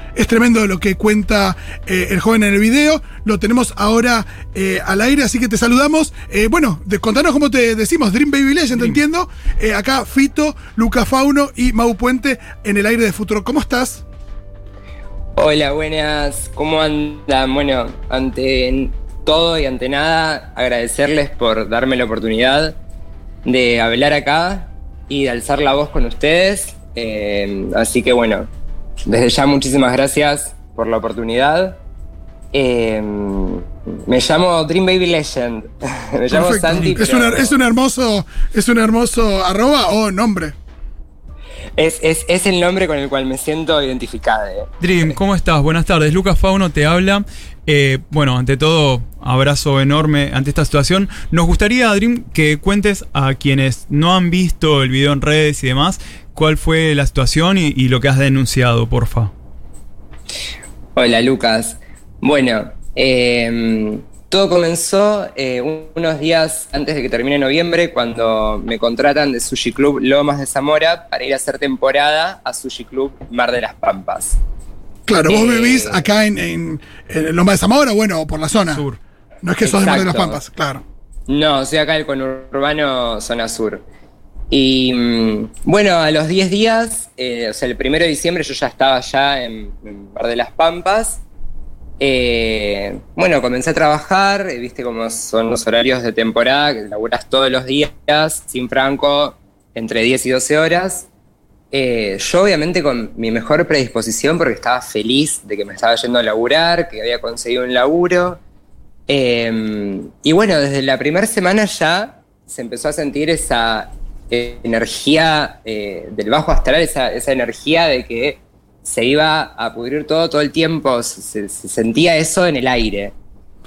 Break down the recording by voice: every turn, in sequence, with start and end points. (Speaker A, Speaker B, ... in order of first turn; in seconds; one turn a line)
Speaker A: 0.1-14.0
Speaker B: 15.3-22.8
Speaker B: 23.4-28.5
Speaker B: 29.1-31.8
Speaker B: 32.5-37.6
Speaker A: 36.3-40.5
Speaker B: 41.8-45.1
Speaker C: 44.8-59.3
Speaker B: 61.0-74.4
Speaker A: 75.1-78.9
Speaker B: 75.3-76.0
Speaker C: 78.6-79.0
Speaker A: 79.4-80.8
Speaker B: 79.6-80.4
Speaker B: 81.3-83.8
Speaker B: 84.5-91.2
Speaker B: 92.0-101.1
Speaker B: 101.7-108.4
Speaker B: 109.1-123.1